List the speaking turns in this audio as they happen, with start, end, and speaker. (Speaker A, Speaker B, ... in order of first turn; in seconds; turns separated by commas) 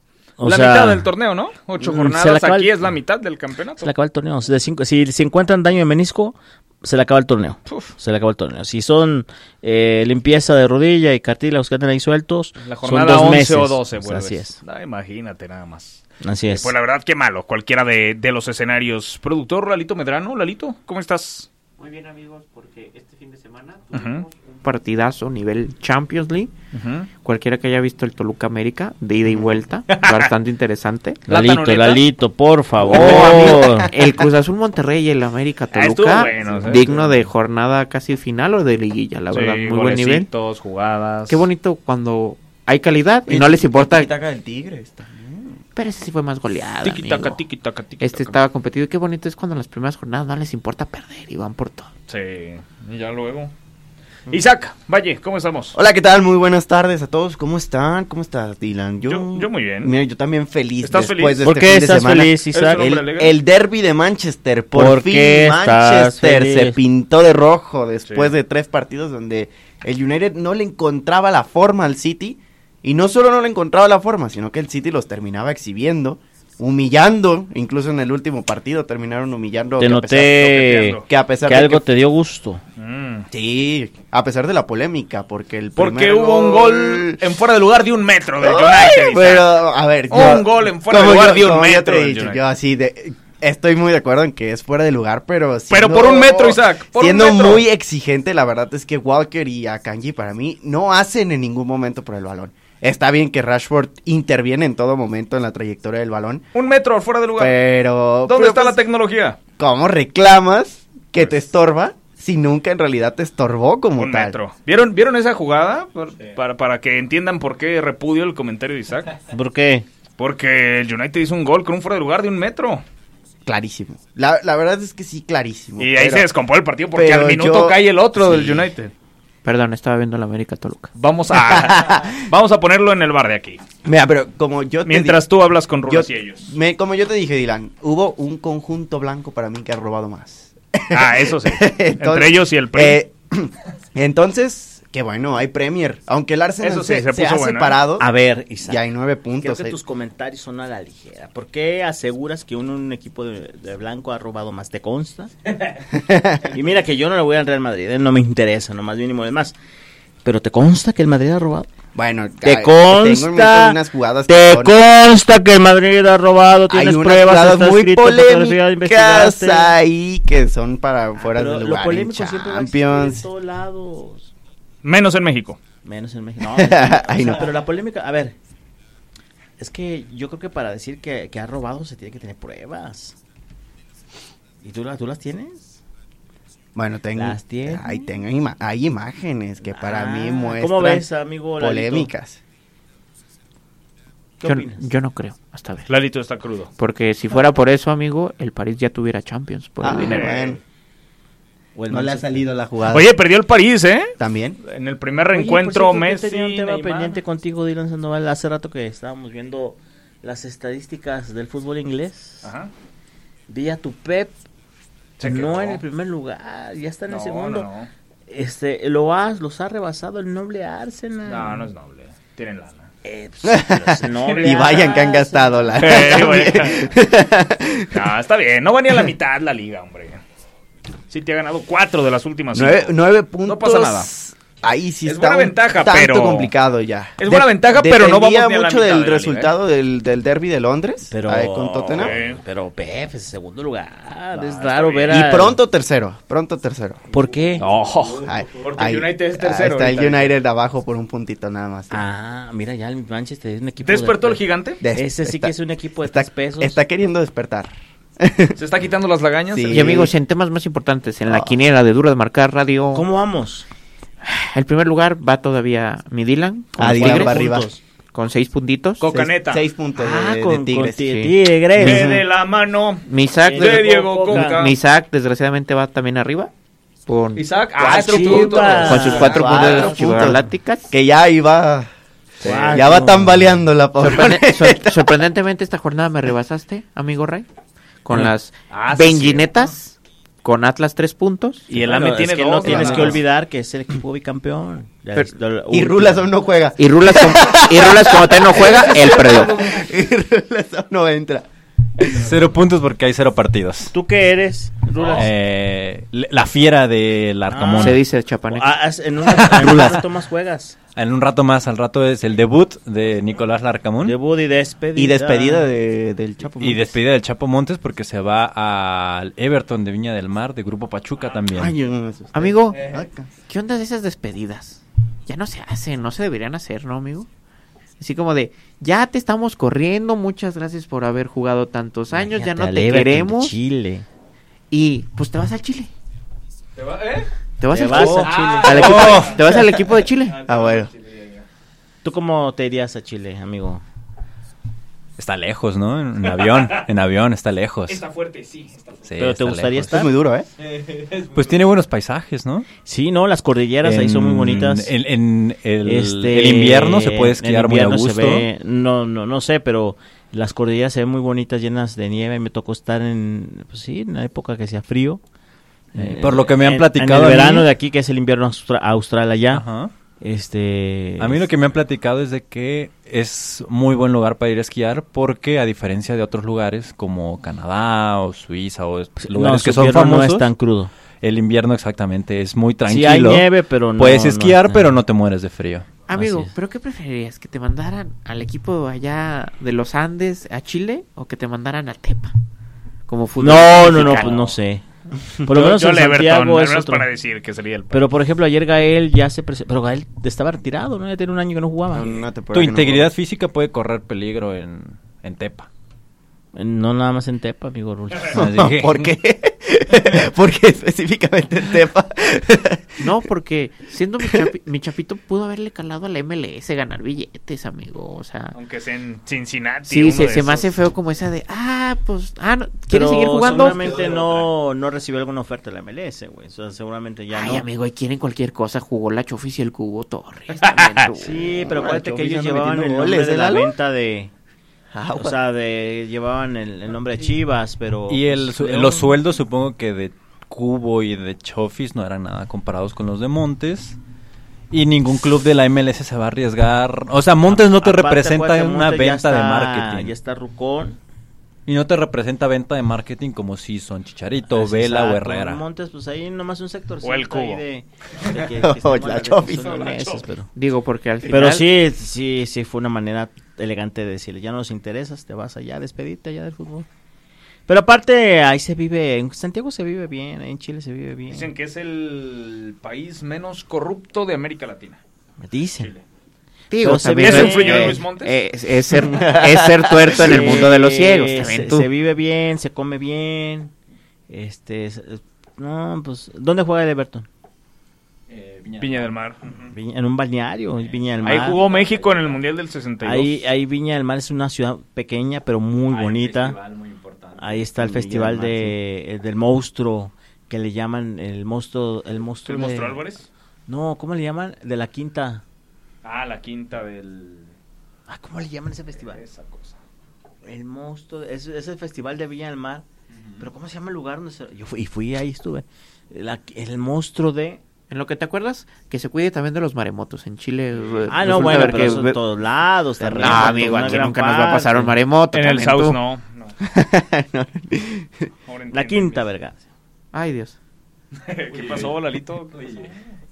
Speaker A: 0.4-1.1, Speaker B: 0.4-3.9, Speaker A: 1.8-2.8, Speaker A: 3.8-14.6, Speaker B: 12.6-21.5, Speaker A: 16.2-16.7, Speaker C: 21.8-26.5, Speaker B: 23.9-24.2, Speaker B: 26.7-27.1, Speaker C: 27.2-31.2, Speaker B: 29.9-30.3, Speaker B: 31.3-32.0, Speaker A: 31.3-33.9, Speaker B: 32.9-33.7, Speaker C: 32.9-40.3, Speaker D: 33.2-33.9, Speaker B: 35.7-37.2, Speaker D: 36.4-37.0, Speaker B: 39.3-41.4, Speaker C: 41.3-44.1, Speaker D: 43.3-45.5, Speaker C: 45.8-47.4, Speaker B: 46.8-48.4, Speaker C: 48.0-51.9, Speaker B: 52.1-53.5, Speaker B: 54.3-55.8, Speaker D: 55.8-80.3, Speaker B: 59.0-59.9, Speaker B: 60.8-61.5, Speaker A: 61.4-62.8, Speaker B: 62.5-63.4, Speaker A: 64.7-66.8, Speaker B: 68.1-68.3, Speaker A: 79.8-82.6, Speaker B: 80.2-81.1, Speaker D: 81.1-81.8, Speaker B: 82.8-83.3, Speaker D: 83.3-87.2, Speaker B: 85.8-92.4, Speaker D: 88.4-106.4, Speaker B: 95.7-97.6, Speaker B: 106.5-107.6, Speaker D: 107.4-108.8, Speaker B: 108.2-109.4, Speaker D: 109.6-114.4, Speaker B: 111.2-111.4, Speaker B: 114.0-119.2, Speaker A: 119.3-119.9, Speaker B: 120.2-122.8, Speaker D: 123.5-126.3, Speaker B: 125.8-128.9, Speaker D: 126.9-128.7, Speaker C: 129.4-130.9, Speaker B: 130.9-133.6, Speaker D: 131.3-132.1, Speaker D: 133.8-135.2, Speaker B: 134.8-136.5, Speaker D: 135.9-148.1, Speaker B: 140.9-143.0, Speaker B: 146.6-147.8, Speaker A: 148.0-148.9, Speaker D: 148.7-149.8, Speaker A: 149.4-155.3, Speaker D: 155.9-156.5, Speaker A: 156.5-159.6, Speaker A: 160.2-161.7, Speaker D: 161.9-164.8, Speaker A: 162.4-169.8, Speaker D: 166.7-173.2, Speaker A: 171.2-174.3, Speaker B: 174.8-175.6, Speaker A: 175.8-178.3, Speaker D: 176.5-177.5, Speaker A: 179.6-183.2, Speaker A: 184.6-185.7, Speaker D: 186.8-192.4, Speaker A: 187.1-187.8, Speaker A: 189.6-192.1, Speaker A: 194.4-194.9, Speaker C: 194.4-195.9, Speaker B: 195.9-196.7, Speaker C: 196.8-200.3, Speaker D: 199.8-200.6, Speaker B: 200.0-200.6, Speaker A: 201.8-202.5, Speaker D: 201.9-203.1, Speaker B: 202.9-207.2, Speaker D: 204.2-204.6, Speaker A: 205.3-212.5, Speaker B: 212.4-212.7, Speaker A: 213.5-214.4, Speaker B: 215.2-215.8, Speaker A: 215.2-217.7, Speaker B: 217.1-217.9, Speaker A: 218.3-221.7, Speaker B: 221.2-222.9, Speaker A: 223.0-226.6, Speaker D: 223.4-228.0, Speaker B: 224.3-224.9, Speaker B: 225.8-226.9, Speaker B: 227.9-230.2, Speaker B: 231.1-234.1, Speaker D: 232.5-242.1, Speaker B: 235.1-236.5, Speaker B: 237.2-239.5, Speaker A: 241.1-245.6, Speaker B: 241.9-242.4, Speaker B: 244.3-245.4, Speaker D: 245.1-247.1, Speaker A: 247.1-247.7, Speaker B: 247.6-250.4, Speaker D: 248.2-252.0, Speaker A: 251.9-256.8, Speaker B: 253.8-254.8, Speaker D: 254.8-258.6, Speaker B: 258.6-260.0, Speaker D: 259.5-260.1, Speaker C: 259.7-263.1, Speaker D: 261.3-261.6, Speaker A: 262.9-263.6, Speaker C: 264.2-267.4, Speaker D: 266.8-267.7, Speaker A: 266.8-267.8, Speaker C: 268.1-269.0, Speaker B: 269.0-269.6, Speaker D: 269.1-271.1, Speaker A: 269.9-272.2, Speaker C: 271.0-271.3, Speaker B: 271.8-274.8, Speaker D: 271.8-272.2, Speaker C: 273.1-276.5, Speaker A: 273.4-274.7, Speaker C: 277.1-277.4, Speaker B: 277.4-279.9, Speaker A: 277.8-280.4, Speaker D: 277.8-281.9, Speaker C: 278.1-280.9, Speaker A: 282.4-283.6, Speaker B: 282.4-282.8, Speaker D: 282.7-285.1, Speaker C: 284.0-287.5, Speaker C: 288.1-291.7, Speaker B: 288.7-289.7, Speaker B: 291.7-293.2, Speaker A: 291.7-296.3, Speaker D: 292.6-293.2, Speaker D: 295.7-301.5, Speaker C: 296.8-299.5, Speaker B: 298.9-299.6, Speaker E: 302.1-303.9, Speaker A: 303.9-305.3, Speaker B: 304.9-305.2, Speaker E: 305.1-308.0, Speaker A: 307.5-310.8, Speaker C: 307.8-308.7, Speaker E: 309.4-310.0, Speaker E: 310.9-314.1, Speaker A: 314.0-315.7, Speaker D: 315.0-317.0, Speaker E: 316.6-321.8, Speaker D: 321.5-323.3, Speaker C: 322.3-322.8, Speaker B: 322.8-323.0, Speaker C: 323.5-327.3, Speaker C: 328.0-333.5, Speaker A: 332.1-334.1, Speaker C: 334.7-335.9, Speaker B: 336.8-337.3, Speaker C: 337.6-340.4, Speaker A: 337.7-339.3, Speaker B: 338.0-339.4, Speaker D: 338.8-339.6, Speaker B: 340.3-341.4, Speaker D: 340.5-340.9, Speaker A: 342.0-343.8, Speaker E: 345.2-348.0, Speaker B: 346.2-346.9, Speaker B: 347.9-349.1, Speaker E: 349.1-350.0, Speaker A: 349.2-350.1, Speaker D: 349.9-350.5, Speaker B: 350.8-351.3, Speaker E: 351.2-352.7, Speaker A: 352.8-354.9, Speaker E: 353.8-358.5, Speaker A: 355.8-365.2, Speaker A: 365.9-369.6, Speaker E: 366.0-367.7, Speaker E: 369.5-369.9, Speaker A: 370.2-371.5, Speaker E: 371.2-380.5, Speaker A: 379.2-380.9, Speaker E: 381.2-385.9, Speaker A: 382.9-385.0, Speaker C: 386.1-392.3, Speaker A: 386.1-386.5, Speaker C: 393.1-394.5, Speaker A: 393.4-394.9, Speaker A: 395.4-397.1, Speaker B: 395.5-398.1, Speaker A: 397.9-402.1, Speaker D: 401.9-403.1, Speaker E: 402.5-405.7, Speaker A: 406.5-408.7, Speaker E: 408.3-409.1, Speaker D: 408.4-412.9, Speaker C: 413.0-418.6, Speaker B: 418.5-420.7, Speaker C: 419.9-423.9, Speaker A: 422.9-427.6, Speaker B: 423.8-424.5, Speaker C: 427.3-431.6, Speaker A: 431.1-434.3, Speaker D: 431.6-433.7, Speaker D: 434.9-435.4, Speaker A: 435.1-439.1, Speaker E: 438.1-444.0, Speaker E: 444.7-450.1, Speaker A: 447.5-451.0, Speaker E: 451.6-455.6, Speaker A: 454.5-460.5, Speaker B: 457.0-457.6, Speaker D: 458.6-459.8, Speaker B: 459.5-460.2, Speaker C: 460.6-461.7, Speaker A: 461.3-466.9, Speaker A: 467.7-471.5, Speaker B: 471.3-475.0, Speaker A: 475.4-475.9, Speaker C: 476.7-481.9, Speaker A: 476.8-478.0, Speaker B: 477.2-478.4, Speaker D: 479.0-480.4, Speaker A: 480.1-483.7, Speaker A: 484.3-487.3, Speaker E: 488.3-489.6, Speaker B: 488.8-489.4, Speaker A: 489.7-491.6, Speaker E: 490.9-492.4, Speaker B: 491.2-493.4, Speaker A: 493.0-496.6, Speaker E: 495.9-497.8, Speaker A: 497.4-503.0, Speaker D: 497.8-498.8, Speaker B: 502.5-503.3, Speaker A: 503.7-505.4, Speaker B: 506.0-507.5, Speaker A: 508.1-509.2, Speaker B: 509.1-509.8, Speaker A: 510.4-512.9, Speaker A: 513.4-517.6, Speaker C: 517.9-522.2, Speaker A: 521.1-524.9, Speaker D: 523.0-524.0, Speaker C: 523.2-526.0, Speaker B: 525.3-526.5, Speaker D: 526.6-528.3, Speaker B: 528.5-529.2, Speaker A: 528.7-529.6, Speaker C: 530.1-530.6, Speaker B: 531.3-532.9, Speaker E: 531.5-531.9, Speaker E: 532.5-532.9